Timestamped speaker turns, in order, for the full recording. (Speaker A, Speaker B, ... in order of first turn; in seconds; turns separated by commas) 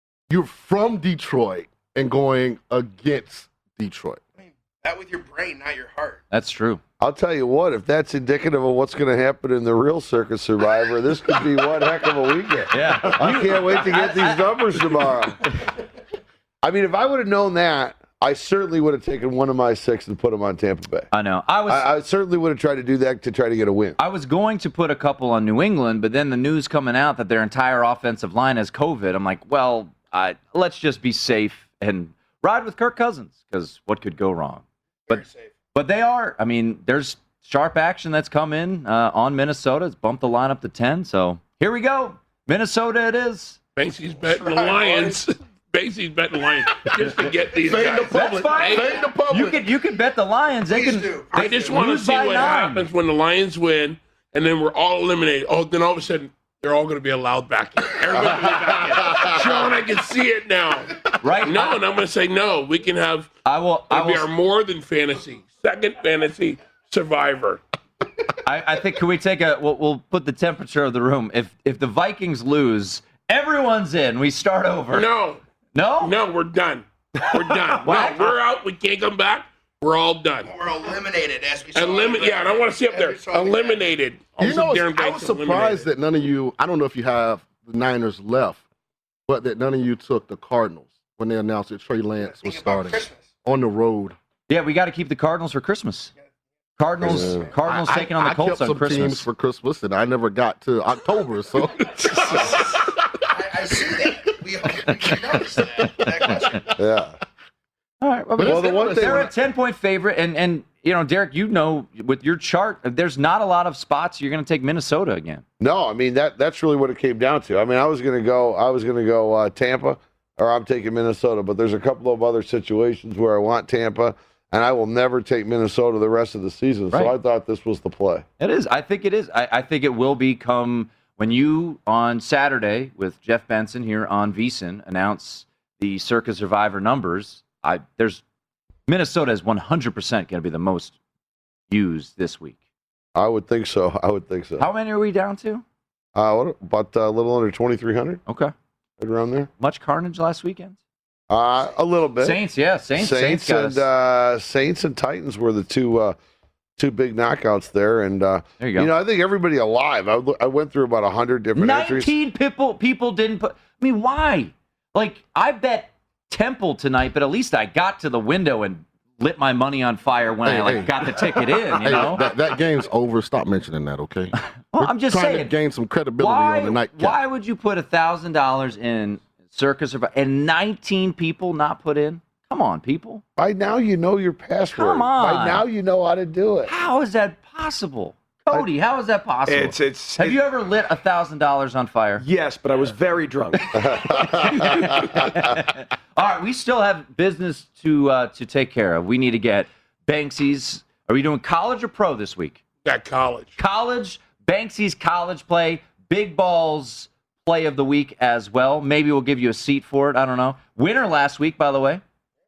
Speaker A: 0.3-4.2, Speaker B: 4.4-6.2, Speaker C: 6.3-6.8, Speaker D: 7.0-15.4, Speaker C: 12.7-15.2, Speaker D: 16.6-21.1, Speaker C: 21.1-21.9, Speaker D: 21.7-24.0, Speaker C: 24.0-35.2, Speaker B: 35.1-35.5, Speaker C: 35.7-43.6, Speaker E: 43.8-49.0, Speaker B: 44.3-45.2, Speaker A: 47.6-49.6, Speaker B: 47.8-48.1, Speaker C: 48.1-52.9, Speaker B: 50.7-51.9, Speaker E: 51.4-63.3, Speaker C: 61.2-61.8, Speaker C: 63.5-64.3, Speaker E: 63.9-67.6, Speaker C: 68.4-75.1, Speaker E: 74.9-75.4, Speaker C: 75.8-76.2, Speaker E: 76.0-80.5, Speaker C: 77.8-78.4, Speaker B: 80.5-83.9, Speaker E: 81.8-85.9, Speaker A: 84.4-88.7, Speaker A: 89.3-94.2, Speaker B: 92.2-93.3, Speaker C: 94.5-96.1, Speaker C: 96.8-99.3, Speaker D: 97.0-97.5, Speaker A: 97.0-102.7, Speaker B: 102.2-102.8, Speaker B: 103.3-106.8, Speaker D: 106.8-107.1, Speaker C: 108.0-115.4, Speaker A: 108.4-109.3, Speaker D: 108.4-109.3, Speaker D: 115.6-128.2, Speaker C: 128.4-138.2, Speaker C: 138.9-141.0, Speaker C: 141.7-142.6, Speaker D: 143.2-144.7, Speaker C: 144.6-145.6, Speaker D: 146.2-148.2, Speaker C: 148.3-148.5, Speaker D: 149.0-149.5, Speaker C: 149.6-150.8, Speaker D: 151.3-152.4, Speaker C: 152.2-153.8, Speaker D: 153.0-156.2, Speaker D: 156.8-162.1, Speaker C: 158.6-158.9, Speaker C: 161.6-172.2, Speaker A: 170.4-177.2, Speaker C: 174.7-175.5, Speaker C: 176.2-183.2, Speaker D: 183.4-186.7, Speaker C: 184.8-185.6, Speaker C: 186.7-192.2, Speaker F: 189.5-190.4, Speaker F: 192.2-193.8, Speaker D: 193.7-195.4, Speaker C: 194.5-202.6, Speaker E: 202.8-203.6, Speaker C: 203.6-212.0